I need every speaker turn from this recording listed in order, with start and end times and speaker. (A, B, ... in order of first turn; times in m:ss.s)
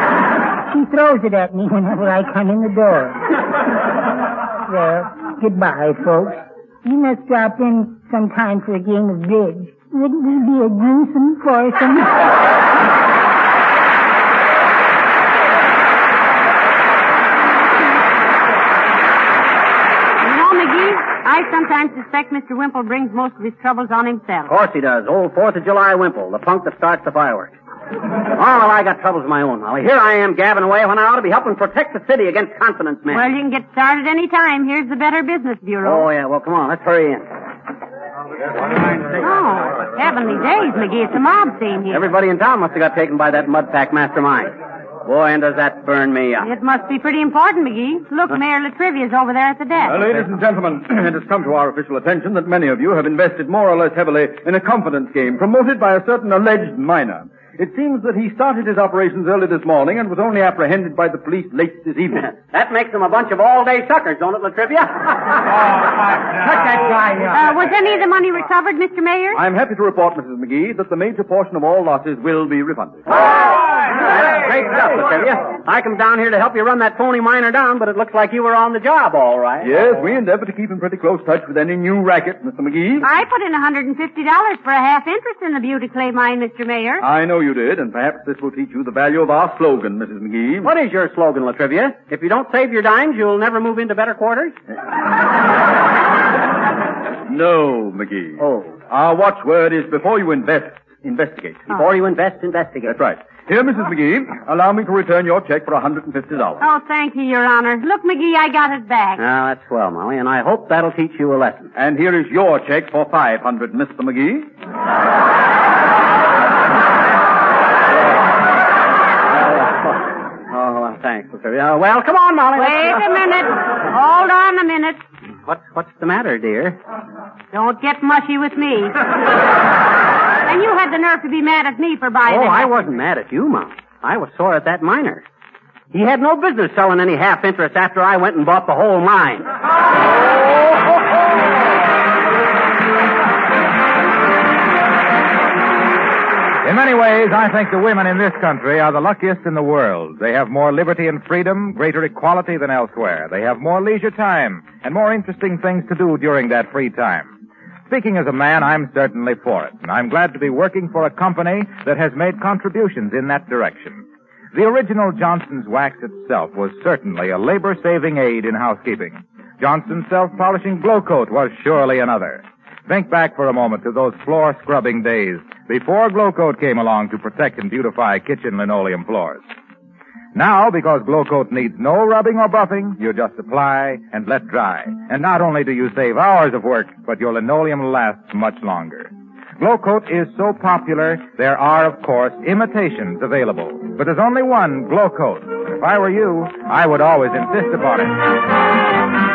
0:00.7-0:03.4 A
0:04.7-0:12.2 A
0:20.2-0:24.5 B
0:24.5-0:27.5 C
0:28.3-0:33.3 C
0:33.1-0:36.1 B
0:35.8-0:37.3 C
0:38.7-0:39.2 C
0:39.2-0:42.1 B
0:41.9-0:46.5 C
0:46.4-0:50.1 B
0:49.8-1:02.3 D
1:02.2-1:05.7 C
1:06.4-1:07.4 C
1:06.7-1:07.3 D
1:07.3-1:09.4 B
1:09.3-1:13.1 D
1:13.1-1:20.1 C
1:19.6-1:23.1 D
1:23.0-1:27.1 B
1:27.0-1:30.7 D
1:30.6-1:34.6 C
1:37.3-1:41.7 D
1:38.4-1:38.8 C
1:41.7-1:43.0 C
1:42.8-1:46.6 D
1:46.6-1:49.2 B
1:49.2-1:51.7 C
1:51.8-1:54.5 D
1:59.3-2:03.0 C
2:02.6-2:05.0 B
2:05.5-2:06.8 C
2:07.5-2:09.0 B
2:10.5-2:12.7 B
2:12.3-2:15.2 C
2:15.9-2:19.5 C
2:26.6-2:37.3 E
2:37.9-2:59.4 E
3:00.4-3:18.3 E